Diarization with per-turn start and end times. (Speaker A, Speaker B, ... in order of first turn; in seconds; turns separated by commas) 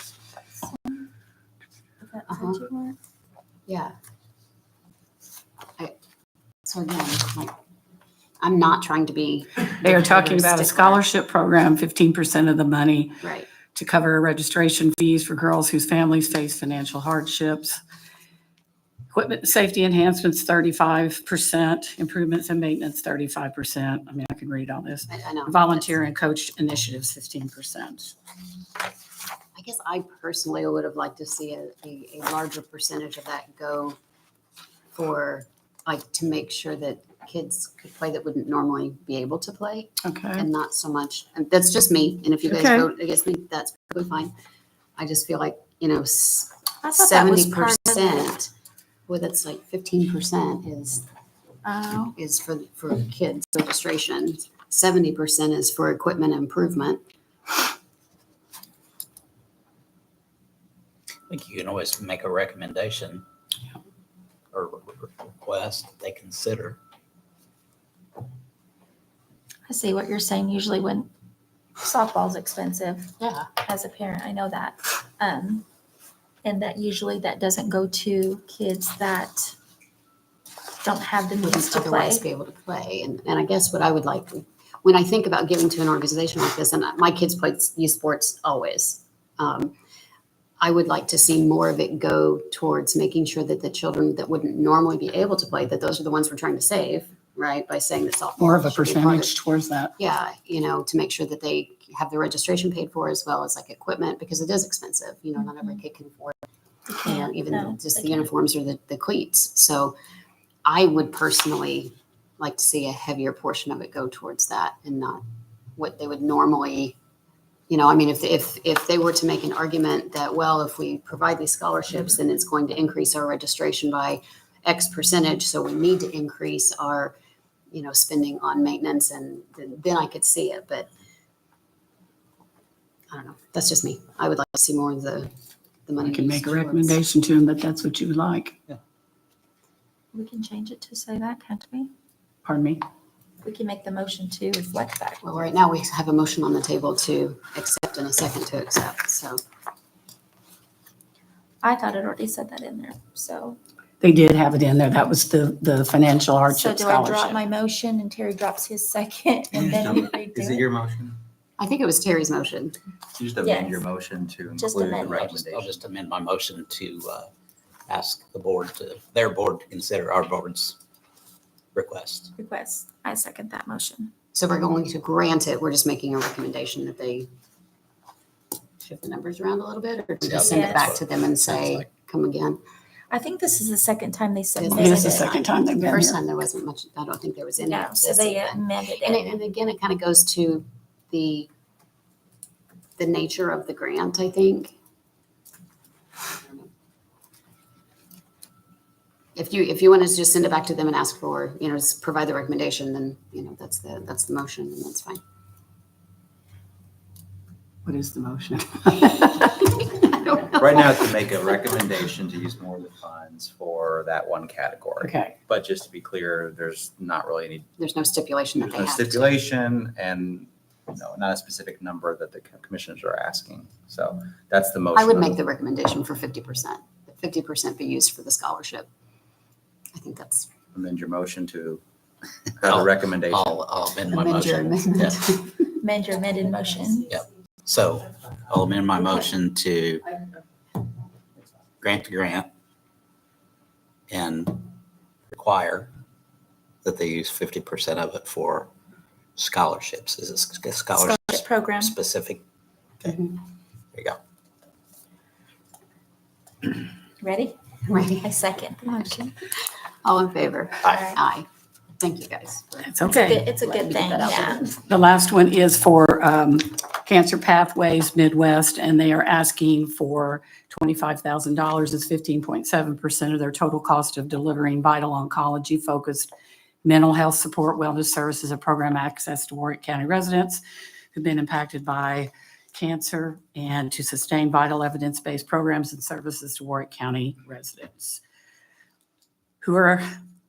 Speaker A: 0.7-1.0, Speaker A: 2.0-3.0, Speaker B: 2.3-2.6, Speaker B: 3.7-4.0, Speaker B: 6.7-7.5, Speaker B: 8.4-11.1, Speaker C: 9.8-17.8, Speaker B: 13.2-13.5, Speaker C: 19.1-28.1, Speaker B: 25.1-25.9, Speaker B: 29.6-34.0, Speaker B: 34.9-44.3, Speaker C: 40.0-40.5, Speaker C: 42.5-42.9, Speaker B: 45.0-48.5, Speaker A: 46.8-48.4, Speaker B: 49.1-51.0, Speaker A: 51.6-52.1, Speaker B: 52.2-57.0, Speaker D: 61.3-63.2, Speaker D: 64.5-66.8, Speaker A: 69.7-71.1, Speaker A: 71.8-75.6, Speaker A: 76.4-79.5, Speaker A: 80.8-82.2, Speaker B: 81.4-89.7, Speaker B: 90.6-99.3, Speaker C: 98.4-99.9, Speaker B: 100.0-106.4, Speaker A: 106.9-108.3, Speaker B: 107.0-110.0, Speaker B: 110.7-115.2, Speaker B: 115.8-117.0, Speaker B: 117.7-127.2, Speaker B: 127.7-130.9, Speaker B: 133.1-135.3, Speaker B: 135.9-137.0, Speaker C: 136.0-138.6, Speaker A: 140.1-141.9, Speaker C: 142.4-142.8, Speaker A: 143.4-145.3, Speaker B: 145.2-149.4, Speaker A: 151.6-153.6, Speaker C: 154.0-157.4, Speaker A: 156.5-160.6, Speaker E: 159.5-161.2, Speaker B: 161.6-162.8, Speaker E: 163.2-165.8, Speaker A: 163.4-163.8, Speaker A: 164.6-165.3, Speaker D: 165.1-167.3, Speaker D: 167.9-170.8, Speaker D: 171.8-172.3, Speaker A: 172.4-174.1, Speaker B: 174.3-177.3, Speaker B: 178.8-182.6, Speaker D: 180.2-181.9, Speaker A: 180.4-180.9, Speaker A: 183.1-185.3, Speaker B: 184.6-191.5, Speaker C: 184.8-186.2, Speaker A: 187.6-189.4, Speaker B: 193.0-194.7, Speaker B: 196.2-196.7, Speaker B: 199.4-205.2, Speaker C: 207.8-209.7, Speaker E: 210.5-217.7, Speaker C: 215.0-215.3, Speaker B: 217.8-219.3, Speaker E: 218.6-225.4, Speaker B: 224.9-228.9, Speaker B: 229.9-230.5, Speaker E: 230.7-231.8, Speaker E: 232.6-233.6, Speaker D: 232.7-235.2, Speaker B: 234.1-235.7, Speaker A: 235.8-237.1, Speaker D: 237.1-240.1, Speaker D: 241.8-242.5, Speaker D: 244.1-244.7, Speaker D: 245.3-245.9, Speaker D: 246.8-248.7, Speaker D: 249.4-252.4, Speaker A: 250.9-252.0, Speaker D: 253.0-253.3, Speaker A: 257.2-257.6, Speaker B: 257.9-258.3, Speaker A: 258.2-259.3, Speaker B: 260.0-261.5, Speaker D: 260.8-261.1, Speaker A: 260.9-261.2, Speaker B: 262.0-264.8, Speaker C: 262.8-263.5, Speaker A: 263.1-264.7, Speaker C: 264.9-276.3, Speaker C: 276.8-288.2, Speaker C: 289.6-290.0